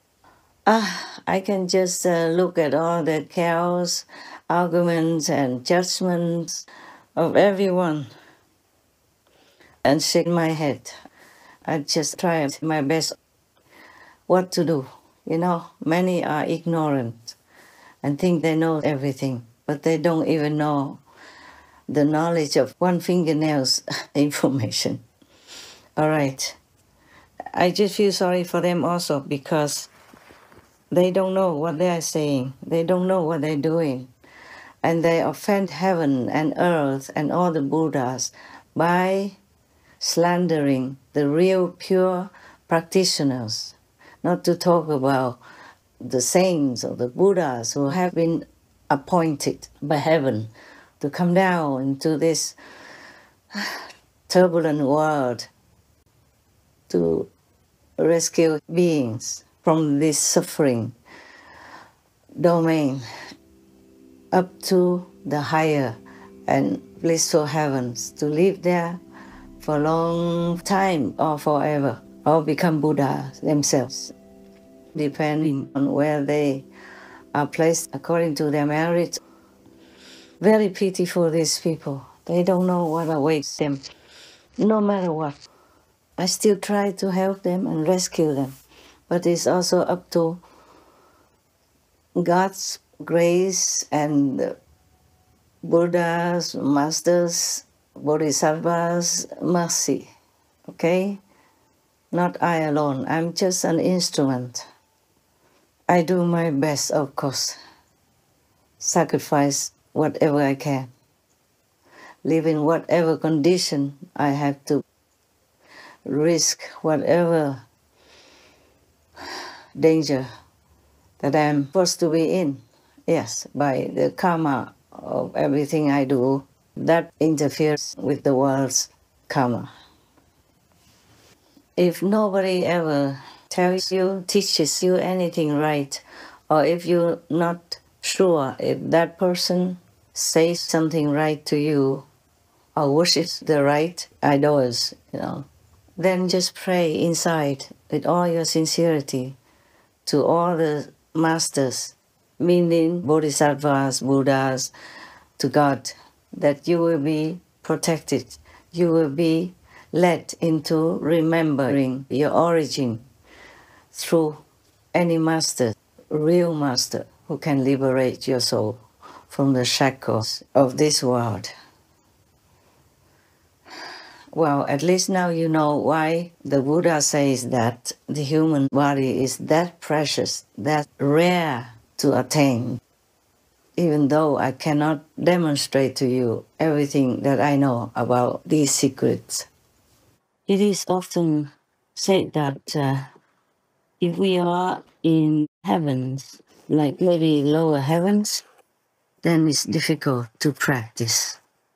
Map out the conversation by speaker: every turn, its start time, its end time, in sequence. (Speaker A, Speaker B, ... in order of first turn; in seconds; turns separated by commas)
Speaker A: 0.7-8.1, Speaker A: 9.8-10.9, Speaker A: 11.7-13.2, Speaker A: 14.3-17.4, Speaker A: 18.0-21.0, Speaker A: 21.9-25.0, Speaker A: 26.0-26.6, Speaker A: 27.5-29.9, Speaker A: 30.9-34.1, Speaker A: 34.8-39.4, Speaker A: 40.0-45.4, Speaker A: 46.0-52.6, Speaker A: 53.5-55.5, Speaker A: 56.9-57.3, Speaker A: 58.0-61.0, Speaker A: 62.4-63.0, Speaker A: 64.3-69.0, Speaker A: 69.6-74.1, Speaker A: 74.9-76.7, Speaker A: 77.3-79.2, Speaker A: 80.4-83.8, Speaker A: 84.6-85.4, Speaker A: 86.2-88.6, Speaker A: 89.1-90.4, Speaker A: 92.2-94.5, Speaker A: 95.6-100.1, Speaker A: 100.7-101.2, Speaker A: 102.1-104.6, Speaker A: 105.9-107.6, Speaker A: 108.8-110.9, Speaker A: 112.2-114.8, Speaker A: 116.0-117.6, Speaker A: 119.8-120.3, Speaker A: 121.2-129.7, Speaker A: 131.8-142.1, Speaker A: 142.8-145.5, Speaker A: 146.0-149.4, Speaker A: 150.1-154.7, Speaker A: 155.4-163.1, Speaker A: 163.9-171.5, Speaker A: 174.3-182.8, Speaker A: 183.8-189.5, Speaker A: 190.5-193.1, Speaker A: 194.0-198.4, Speaker A: 199.2-201.4